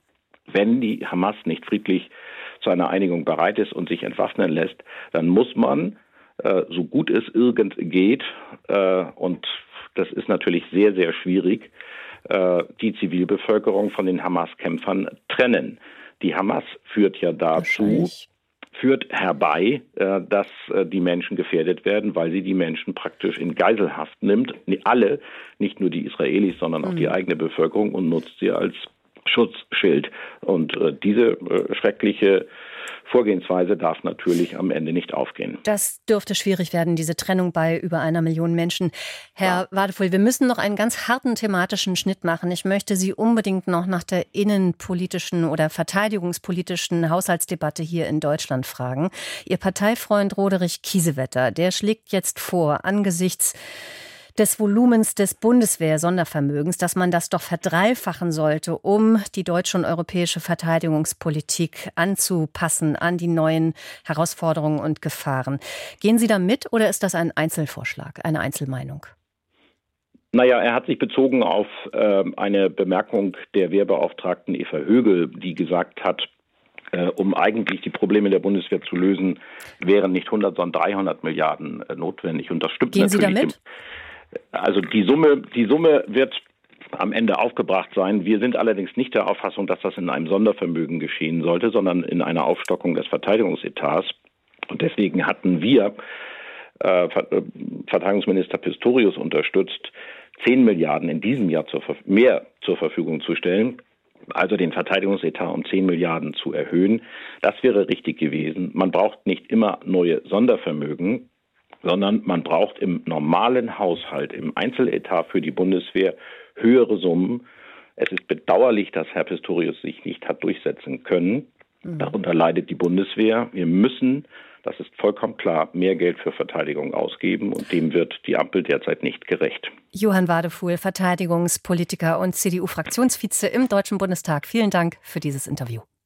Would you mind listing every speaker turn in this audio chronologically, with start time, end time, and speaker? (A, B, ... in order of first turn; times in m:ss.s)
0:00.5-0:11.7 A
0:12.2-0:18.1 A
0:17.6-0:18.3 B
0:18.7-0:32.5 A
0:33.0-0:35.6 A
0:35.6-0:53.6 B
0:54.4-1:09.1 B
1:10.3-1:16.3 A
1:16.9-1:23.6 A
1:22.9-1:23.6 B
1:24.5-1:26.4 A
1:26.9-1:34.1 A
1:34.7-1:35.9 A
1:36.8-1:43.8 A
1:44.3-1:51.3 A
1:51.8-1:57.4 A
1:58.0-2:09.7 A
2:09.9-2:15.8 B